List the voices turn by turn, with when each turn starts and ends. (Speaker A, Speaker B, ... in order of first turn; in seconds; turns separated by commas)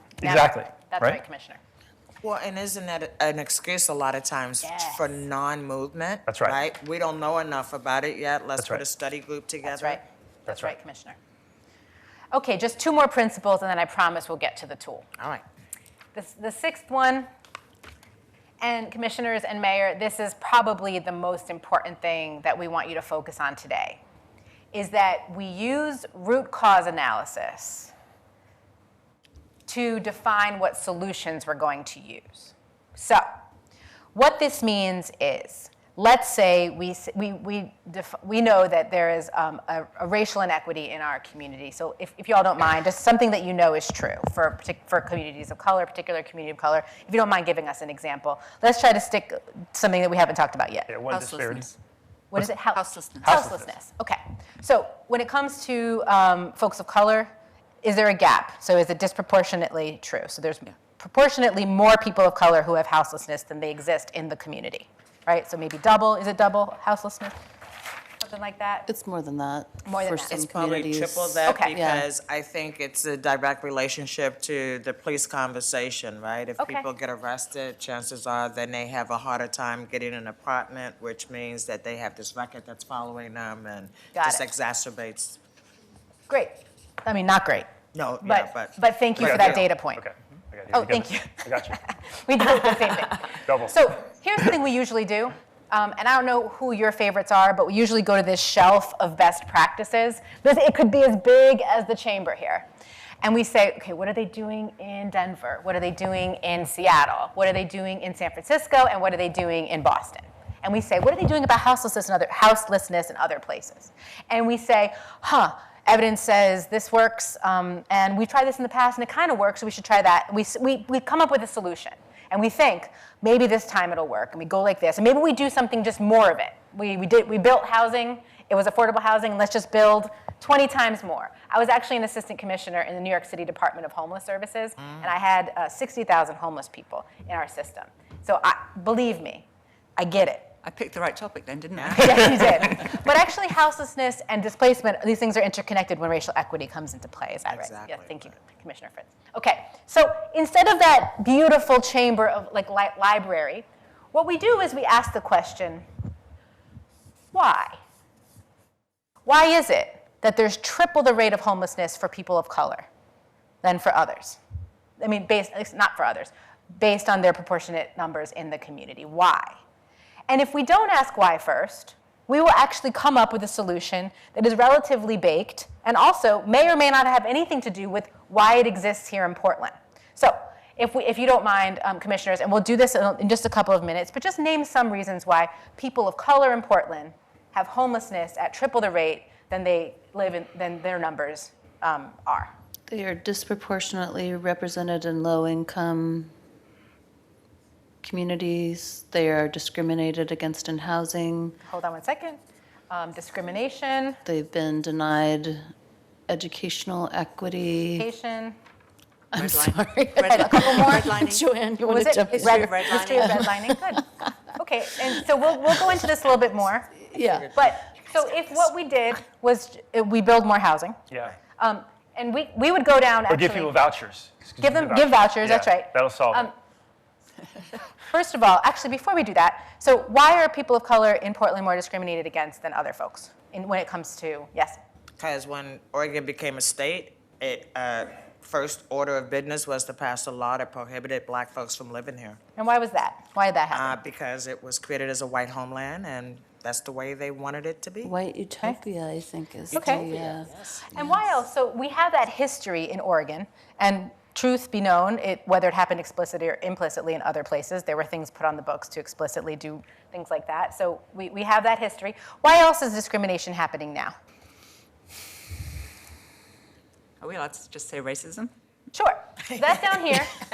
Speaker A: 0.2-1.2, Speaker B: 0.2-1.6, Speaker C: 2.2-10.0, Speaker B: 4.6-5.2, Speaker A: 6.3-6.6, Speaker A: 8.6-8.8, Speaker B: 9.7-11.2, Speaker A: 10.5-10.7, Speaker B: 12.3-15.1, Speaker C: 15.2-15.4, Speaker B: 16.1-17.3, Speaker B: 18.6-24.0, Speaker B: 24.7-27.9, Speaker B: 29.7-33.3, Speaker B: 34.1-50.9, Speaker A: 50.9-51.7, Speaker D: 51.1-51.7, Speaker B: 52.3-57.3, Speaker D: 52.7-53.3, Speaker A: 53.2-53.7, Speaker B: 57.8-67.3, Speaker B: 68.2-68.9, Speaker E: 68.9-72.1, Speaker B: 69.8-70.4, Speaker C: 70.3-85.4, Speaker B: 71.5-71.8, Speaker B: 76.6-76.9, Speaker B: 84.1-84.5, Speaker B: 86.3-87.7, Speaker C: 87.9-89.7, Speaker B: 88.2-90.0, Speaker A: 89.2-91.8, Speaker B: 90.7-102.7, Speaker A: 93.5-93.8, Speaker B: 103.2-140.6, Speaker D: 140.6-142.7, Speaker C: 141.8-142.6, Speaker B: 141.9-155.9, Speaker C: 147.5-148.3, Speaker B: 157.3-157.8, Speaker B: 159.3-162.9, Speaker B: 163.6-164.4, Speaker B: 165.0-169.6, Speaker B: 170.3-192.5, Speaker E: 192.9-196.3, Speaker E: 198.0-201.6, Speaker B: 201.6-204.2, Speaker E: 204.2-205.7, Speaker E: 206.3-208.1, Speaker B: 208.0-208.6, Speaker E: 209.3-214.2, Speaker D: 209.3-211.5, Speaker B: 210.3-211.1, Speaker B: 211.8-221.0, Speaker D: 212.3-213.4, Speaker E: 215.7-216.0, Speaker E: 217.1-217.6, Speaker C: 217.2-218.6, Speaker B: 221.6-223.8, Speaker A: 223.3-226.5, Speaker B: 224.6-226.5, Speaker B: 228.1-234.8, Speaker C: 235.2-242.4, Speaker B: 242.6-244.0, Speaker C: 243.7-248.1, Speaker E: 248.0-251.2, Speaker C: 249.7-250.8, Speaker B: 249.7-250.1, Speaker B: 250.9-264.2, Speaker D: 267.2-268.5, Speaker B: 268.9-270.4